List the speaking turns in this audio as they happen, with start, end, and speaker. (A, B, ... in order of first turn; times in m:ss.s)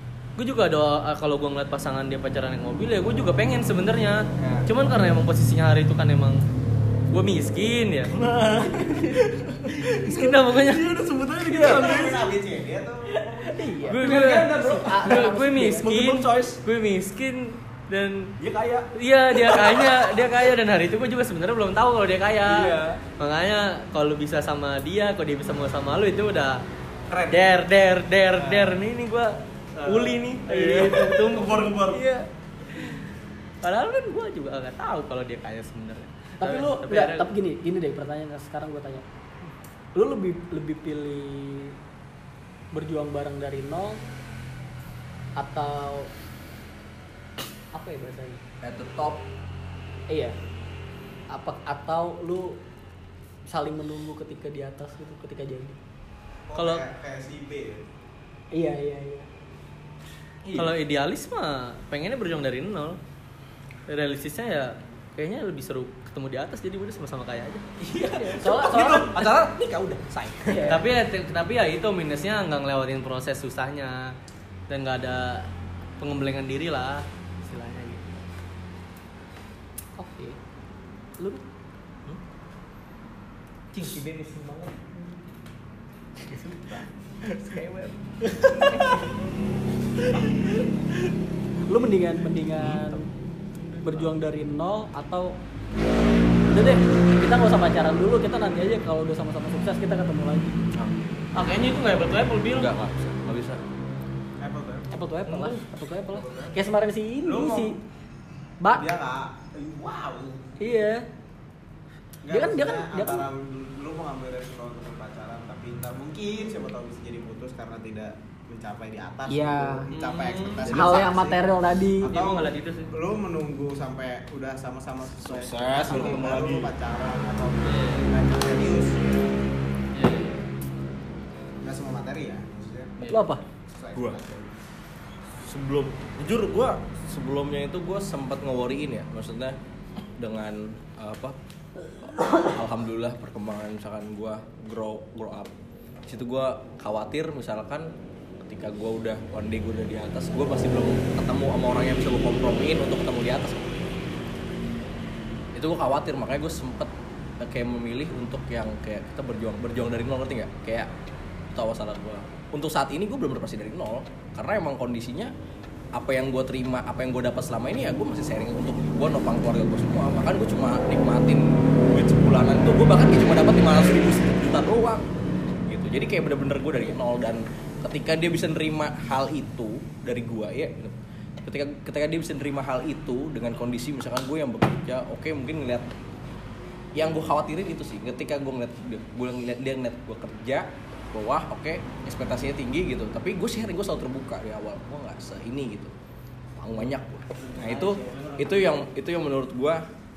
0:00.4-0:06.4 A
0:04.4-0:04.7 B
0:07.1-0:08.1 A
0:08.1-0:12.3 B
0:10.0-0:10.9 A
0:11.5-0:13.7 C
0:13.3-0:15.9 D
0:13.9-0:18.3 A
0:14.0-0:16.6 B
0:18.4-0:20.5 B
0:19.0-0:26.6 A
0:22.4-0:23.0 B
0:27.1-0:27.5 B
0:27.3-0:32.2 A
0:28.4-0:28.7 B
0:29.8-0:32.0 B
0:32.0-0:32.2 D
0:33.6-0:37.3 A
0:36.4-0:39.0 D
0:40.0-0:41.8 D
0:42.7-0:44.0 D
0:45.4-0:46.1 D
0:47.7-0:48.4 D
0:48.6-0:49.3 B
0:51.3-0:52.6 D
0:53.5-0:55.8 D
0:56.5-0:57.8 C
0:56.6-0:56.9 A
0:58.5-0:59.3 D
1:00.4-1:00.8 B
1:00.5-1:03.0 A
1:03.9-1:07.6 A
1:07.8-1:10.8 B
1:08.0-1:09.3 D
1:10.5-1:10.9 D
1:10.7-1:14.1 A
1:14.7-1:15.5 A
1:16.0-1:18.2 A
1:20.0-1:20.4 D
1:23.8-1:25.1 A
1:26.3-1:26.9 D
1:27.3-1:27.9 B
1:28.6-1:29.1 B
1:28.7-1:29.0 D
1:31.7-1:33.0 D
1:32.6-1:33.0 B
1:33.8-1:35.4 D
1:36.5-1:40.6 D
1:41.4-1:42.7 A
1:42.5-1:43.6 B
1:44.4-1:44.9 C
1:44.9-1:47.8 D
1:45.3-1:45.6 A
1:46.1-1:46.6 C
1:47.2-1:47.8 C
1:48.7-1:50.4 C
1:50.6-1:51.0 D
1:52.2-2:01.4 C
1:52.3-1:53.3 D
1:59.3-1:59.9 D
1:59.9-2:00.6 A
2:00.6-2:01.0 B
2:00.7-2:02.1 D
2:02.0-2:09.1 C
2:02.1-2:02.9 A
2:05.2-2:06.7 B
2:07.7-2:08.1 A
2:10.0-2:10.4 A
2:11.6-2:13.1 C
2:13.0-2:13.3 A
2:13.1-2:13.4 D
2:13.7-2:14.6 C
2:13.9-2:14.2 B
2:15.4-2:19.6 B
2:20.2-2:21.4 B
2:22.1-2:25.5 B
2:26.1-2:27.9 B
2:28.4-2:33.7 B
2:35.6-2:40.9 B
2:41.5-2:45.3 B
2:46.0-2:55.1 B
2:55.7-3:00.9 B
3:01.4-3:05.9 B
3:07.0-3:15.9 B
3:16.6-3:19.8 B